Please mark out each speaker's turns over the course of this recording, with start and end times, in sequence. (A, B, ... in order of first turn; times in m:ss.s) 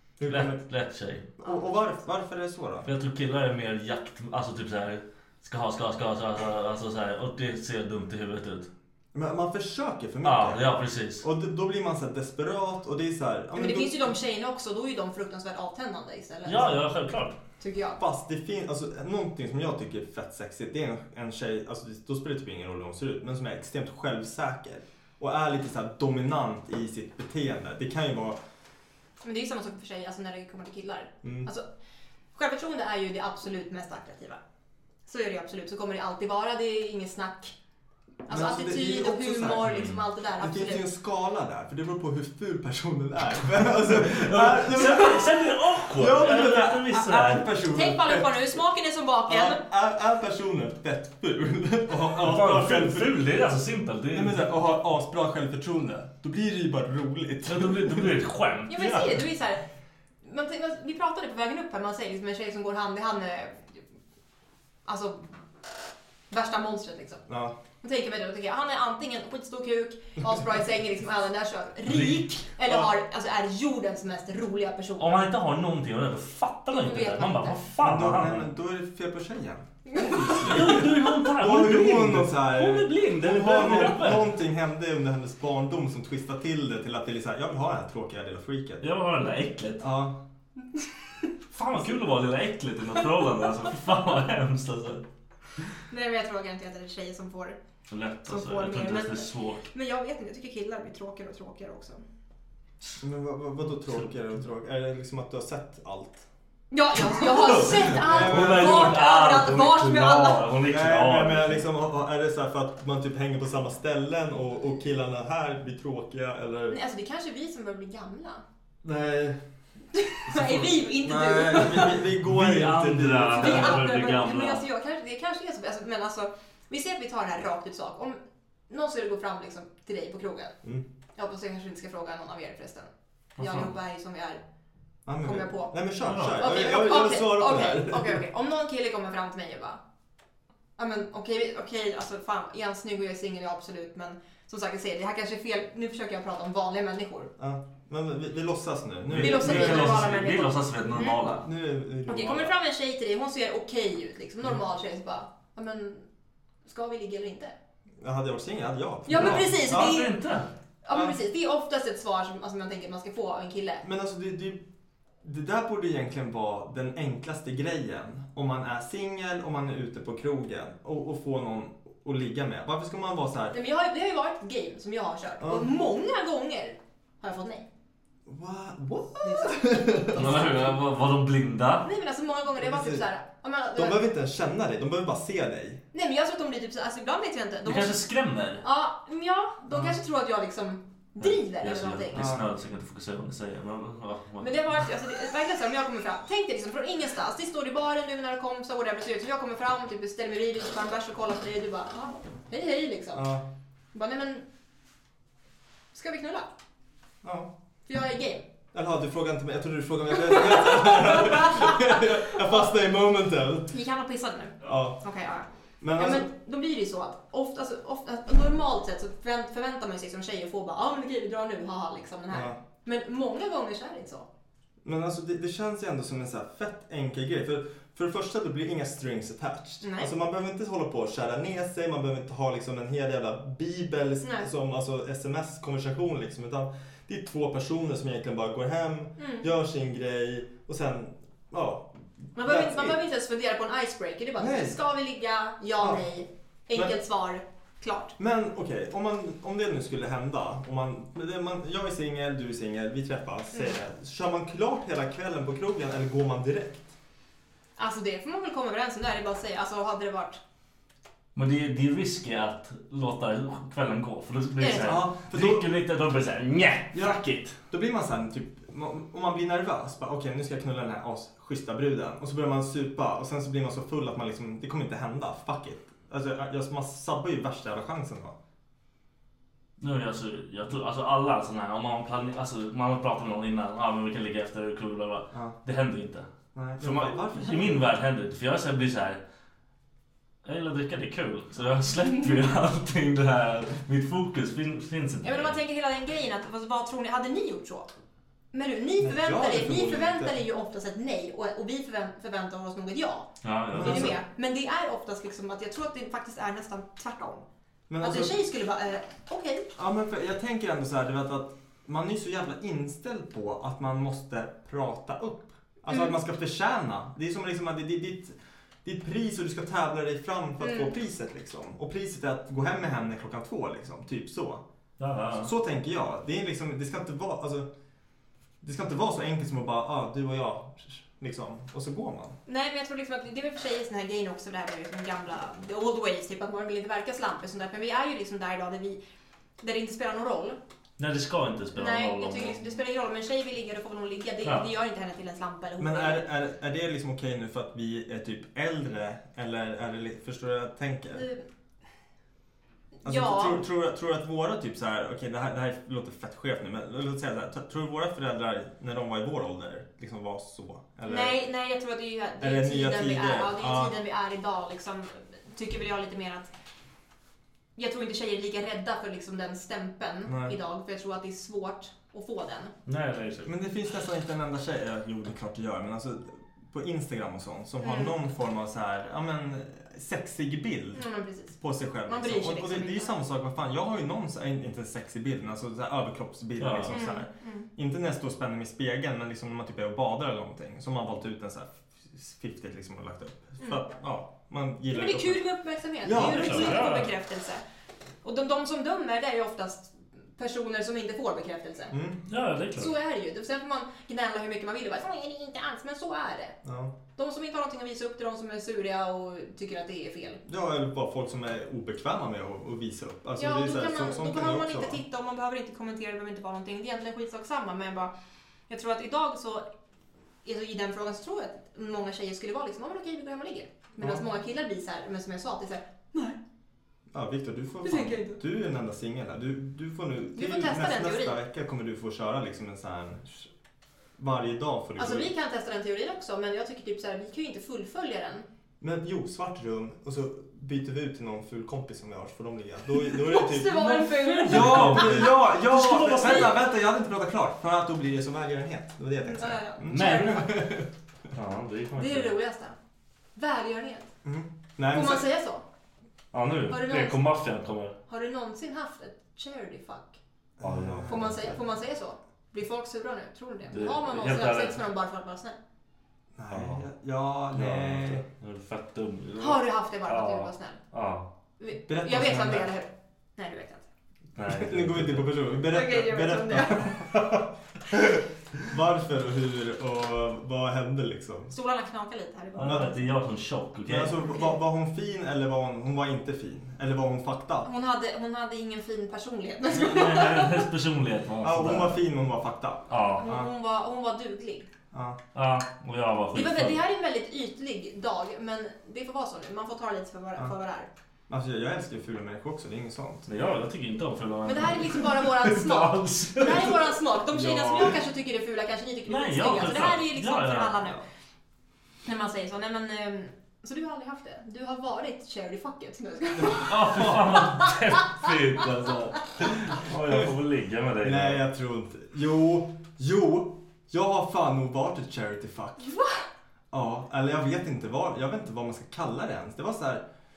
0:00.2-0:00.6 A
0:00.2-0:01.3 B
0:01.4-0:02.9 A
0:02.8-0:08.7 B
0:09.1-0:14.1 A
0:10.2-0:11.2 B
0:13.5-0:16.8 C
0:16.4-0:17.4 B
0:17.6-0:18.0 C
0:18.0-0:28.4 A
0:29.2-0:31.6 C
0:31.2-0:31.5 A
0:32.3-0:34.4 C
0:35.0-0:37.5 C
0:38.2-0:40.8 C
0:38.3-0:39.7 A
0:39.6-0:40.0 B
0:40.4-0:45.4 A
0:43.9-0:47.5 B
0:45.9-0:48.6 A
0:47.7-0:49.6 C
0:49.3-0:53.2 A
0:52.1-0:54.5 B
0:54.1-0:58.2 A
0:57.4-0:59.2 B
0:58.7-0:59.6 C
1:00.2-1:03.8 C
1:04.8-1:05.3 C
1:06.3-1:07.2 C
1:07.3-1:07.6 A
1:07.8-1:15.1 C
1:11.9-1:12.2 B
1:15.0-1:18.5 B
1:16.7-1:17.6 C
1:17.8-1:28.8 A
1:19.9-1:20.3 C
1:20.1-1:24.4 B
1:28.8-1:29.8 B
1:29.8-1:30.2 A
1:31.5-1:35.0 B
1:35.9-1:37.6 C
1:37.9-1:39.6 B
1:38.3-1:42.0 C
1:43.0-1:46.2 A
1:43.9-1:44.3 B
1:46.7-1:50.4 C
1:47.4-1:51.6 B
1:48.0-1:49.0 A
1:50.7-1:56.8 A
1:56.7-1:58.4 C
1:58.8-1:59.4 A
1:59.9-2:02.0 C
2:00.3-2:03.8 A
2:02.2-2:04.6 B
2:03.3-2:08.2 C
2:08.7-2:10.6 C
2:11.2-2:14.4 C
2:13.4-2:13.7 B
2:15.0-2:18.2 A
2:15.2-2:15.7 C
2:16.0-2:16.5 B
2:16.4-2:19.8 C
2:20.8-2:27.3 C
2:27.4-2:30.1 A
2:29.1-2:31.4 B
2:29.2-2:31.2 C
2:31.2-2:32.5 A
2:32.1-2:36.0 C
2:36.6-2:37.5 C
2:38.0-2:40.0 A
2:39.1-2:40.1 C
2:39.1-2:40.5 B
2:40.8-2:43.8 C
2:43.8-2:44.6 A
2:45.2-2:53.6 A
2:53.5-2:57.6 C
2:55.4-2:55.7 A
2:58.3-3:00.4 A
2:59.2-3:00.1 C
3:00.1-3:01.8 B
3:01.8-3:04.0 C
3:02.6-3:03.0 A
3:03.7-3:05.8 A
3:05.9-3:08.0 C
3:07.6-3:08.6 B
3:08.6-3:12.3 C
3:09.7-3:10.0 A
3:11.2-3:14.5 B
3:12.1-3:12.4 A
3:14.4-3:23.2 C
3:23.1-3:23.4 A
3:23.9-3:24.4 C
3:25.9-3:26.5 C
3:27.2-3:27.5 A
3:27.9-3:28.4 C
3:28.7-3:33.7 A
3:30.2-3:32.5 C
3:33.7-3:44.3 C
3:34.6-3:35.0 A
3:35.8-3:36.3 A
3:42.3-3:42.6 A
3:44.8-4:03.0 A
3:49.8-3:50.1 C
3:54.2-3:54.5 C
3:59.2-3:59.5 C
4:02.3-4:08.1 C
4:04.4-4:04.8 A
4:05.8-4:06.0 A
4:08.2-4:16.9 A
4:17.8-4:20.4 C
4:21.3-4:27.6 B
4:24.6-4:24.9 C
4:24.8-4:25.7 A
4:26.9-4:38.4 A
4:39.8-4:49.2 B
4:45.3-4:45.6 A
4:46.5-4:47.8 A
4:50.4-4:55.6 B
4:55.2-4:57.9 C
4:58.5-5:07.4 C
4:59.0-5:00.3 A
5:03.4-5:04.1 B
5:03.7-5:04.2 A
5:07.9-5:08.3 A
5:08.0-5:09.7 C
5:09.8-5:24.6 A
5:15.9-5:16.1 C
5:20.6-5:20.9 C
5:25.0-5:25.5 B
5:25.4-5:27.7 A
5:28.6-5:32.4 A
5:32.4-5:39.0 C
5:39.6-5:40.6 C
5:41.0-5:42.6 B
5:41.7-5:46.2 C
5:45.8-5:51.3 A
5:51.1-5:51.4 C
5:53.0-5:53.6 C
5:53.0-6:01.4 A
6:01.0-6:06.5 C
6:02.4-6:03.9 A
6:07.8-6:12.7 C
6:10.2-6:10.6 A
6:12.8-6:13.5 B
6:13.4-6:21.0 A
6:17.8-6:18.1 C
6:20.9-6:23.2 C
6:21.6-6:35.4 A
6:26.6-6:27.0 B
6:26.9-6:27.7 C
6:33.6-6:33.8 C
6:34.9-6:37.6 C
6:36.0-6:36.9 A
6:36.1-6:37.1 B
6:38.2-6:42.0 C
6:41.9-6:42.2 A
6:42.3-6:42.9 B
6:42.8-6:46.6 C
6:46.6-6:46.9 A
6:47.2-6:50.4 C
6:50.5-6:55.0 A
6:53.4-6:58.1 C
6:58.7-6:59.6 C
7:00.4-7:06.4 C
7:07.1-7:13.5 A
7:07.8-7:08.4 C
7:10.4-7:11.4 C
7:14.2-7:15.3 A
7:15.0-7:18.4 C
7:18.8-7:23.9 A
7:22.9-7:26.5 C
7:23.7-7:26.5 B
7:24.4-7:30.9 A
7:29.2-7:30.6 C
7:29.9-7:30.7 B
7:31.3-7:32.3 B
7:32.0-7:32.8 C
7:33.4-7:34.1 C
7:34.2-7:35.2 A
7:34.9-7:35.6 C
7:36.3-7:38.0 B
7:36.7-7:37.2 C
7:38.1-7:40.2 C
7:40.6-7:41.5 A
7:40.6-7:41.2 B
7:41.1-7:45.6 C
7:43.7-7:44.8 B
7:46.4-7:48.2 A
7:46.5-7:46.8 B
7:47.5-7:51.3 B
7:49.4-7:50.8 C
7:51.6-7:53.8 C
7:51.9-7:52.7 A
7:54.4-7:55.3 B
7:54.4-7:57.2 A
7:55.7-7:57.0 C
7:58.6-8:01.5 A
8:01.5-8:03.0 C
8:02.6-8:04.1 B
8:03.8-8:07.7 A
8:07.6-8:10.6 C
8:09.7-8:12.0 B
8:11.4-8:13.5 A
8:12.9-8:13.2 B
8:13.2-8:14.7 C
8:14.9-8:15.2 A
8:15.3-8:16.8 B
8:16.3-8:20.9 C
8:21.3-8:23.3 A
8:23.3-8:26.8 B
8:24.4-8:31.0 C
8:27.3-8:28.0 A
8:29.1-8:30.7 B
8:32.0-8:37.4 C
8:36.6-8:41.4 B
8:36.8-8:37.2 A
8:41.0-8:45.9 A
8:45.8-8:46.2 C
8:46.7-8:50.0 A